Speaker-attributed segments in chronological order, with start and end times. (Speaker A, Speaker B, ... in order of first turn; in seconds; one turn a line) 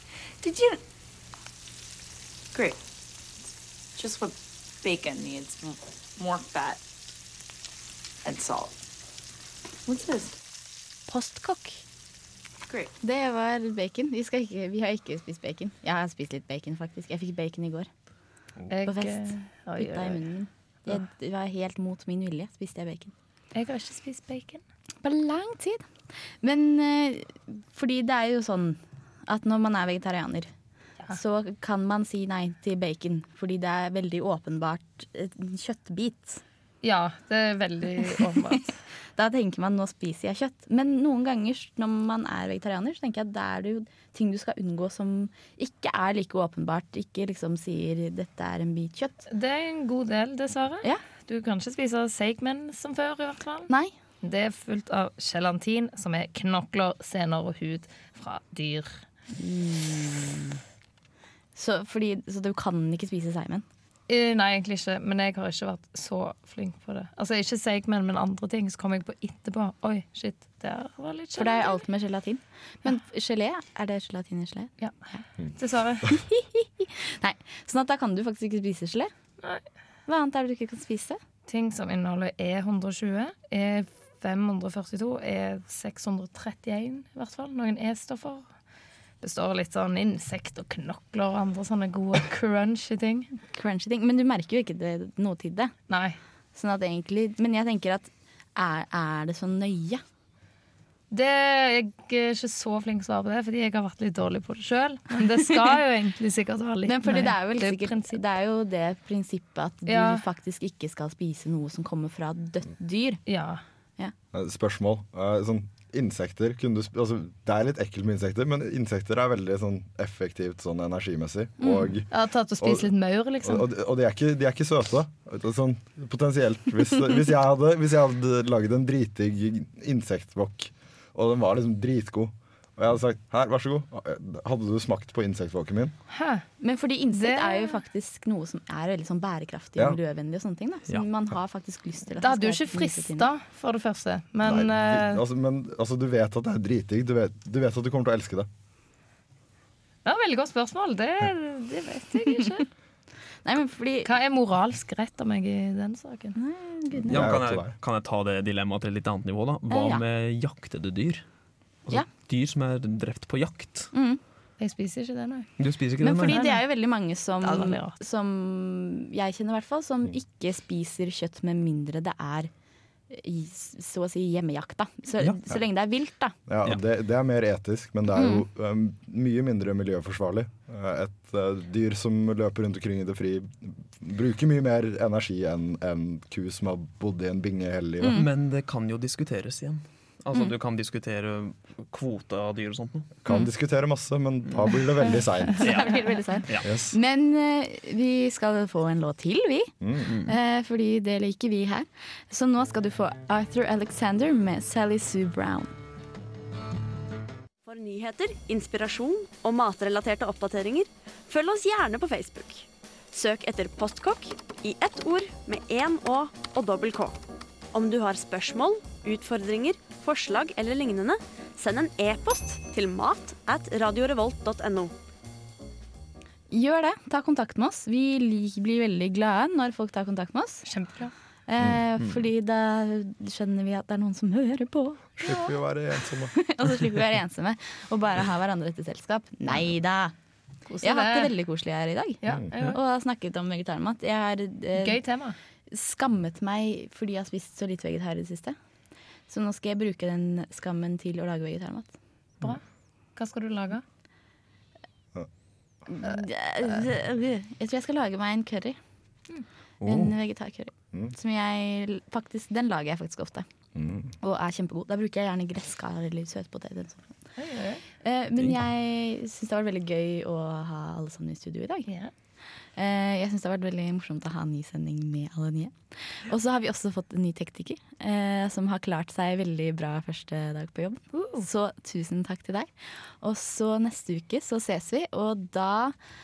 Speaker A: 0.4-0.8
Speaker A: 4.0-6.8
Speaker A: 8.2-8.7
Speaker B: 11.1-11.8
Speaker B: 13.0-17.9
Speaker C: 18.7-20.3
Speaker B: 18.8-23.1
Speaker C: 23.5-24.6
Speaker B: 25.0-25.8
Speaker B: 26.4-30.5
Speaker B: 31.1-36.4
Speaker C: 36.8-38.8
Speaker B: 39.1-49.2
Speaker C: 49.3-53.7
Speaker B: 53.7-53.9
Speaker C: 54.2-59.0
Speaker B: 59.4-60.6
Speaker B: 61.5-63.6
Speaker C: 64.1-71.8
Speaker B: 71.3-75.2
Speaker C: 75.5-76.1
Speaker B: 76.0-79.1
Speaker B: 80.0-81.2
Speaker C: 81.5-88.5
Speaker C: 89.2-93.3
Speaker B: 93.5-95.8
Speaker C: 95.9-96.2
Speaker B: 96.5-100.0
Speaker C: 101.1-108.2
Speaker B: 106.8-113.2
Speaker C: 109.8-110.2
Speaker C: 113.2-113.6
Speaker D: 114.3-122.9
Speaker B: 121.6-121.9
Speaker C: 122.1-123.6
Speaker D: 123.4-135.9
Speaker C: 136.1-136.4
Speaker B: 136.6-143.3
Speaker C: 137.1-137.8
Speaker C: 142.2-145.2
Speaker D: 144.4-148.5
Speaker C: 150.0-152.7
Speaker B: 153.4-154.1
Speaker C: 154.0-156.4
Speaker B: 156.3-157.3
Speaker D: 156.9-157.7
Speaker E: 157.1-161.2
Speaker B: 159.7-160.0
Speaker E: 161.9-163.9
Speaker B: 163.9-164.2
Speaker C: 164.6-165.5
Speaker E: 165.6-166.4
Speaker B: 166.0-172.5
Speaker C: 166.3-166.7
Speaker C: 167.4-167.9
Speaker B: 173.1-176.3
Speaker D: 176.5-188.2
Speaker B: 178.1-178.4
Speaker B: 188.0-188.2
Speaker E: 188.1-193.1
Speaker D: 193.2-195.7
Speaker E: 195.6-196.7
Speaker B: 195.6-205.7
Speaker D: 196.6-197.0
Speaker D: 199.8-200.1
Speaker E: 200.1-200.3
Speaker F: 207.6-217.2
Speaker F: 217.7-224.9
Speaker B: 226.5-230.7
Speaker C: 230.6-231.1
Speaker B: 231.5-235.6
Speaker D: 235.2-236.3
Speaker B: 236.3-240.1
Speaker C: 240.7-241.3
Speaker B: 240.8-245.0
Speaker C: 242.2-242.8
Speaker C: 244.8-245.4
Speaker B: 245.7-248.6
Speaker B: 249.3-251.9
Speaker C: 253.2-253.8
Speaker B: 255.9-258.8
Speaker E: 259.8-260.1
Speaker B: 259.8-263.5
Speaker D: 263.7-264.1
Speaker B: 264.2-267.1
Speaker C: 267.4-267.8
Speaker B: 268.0-271.9
Speaker C: 271.9-272.1
Speaker B: 272.8-285.9
Speaker C: 281.1-281.4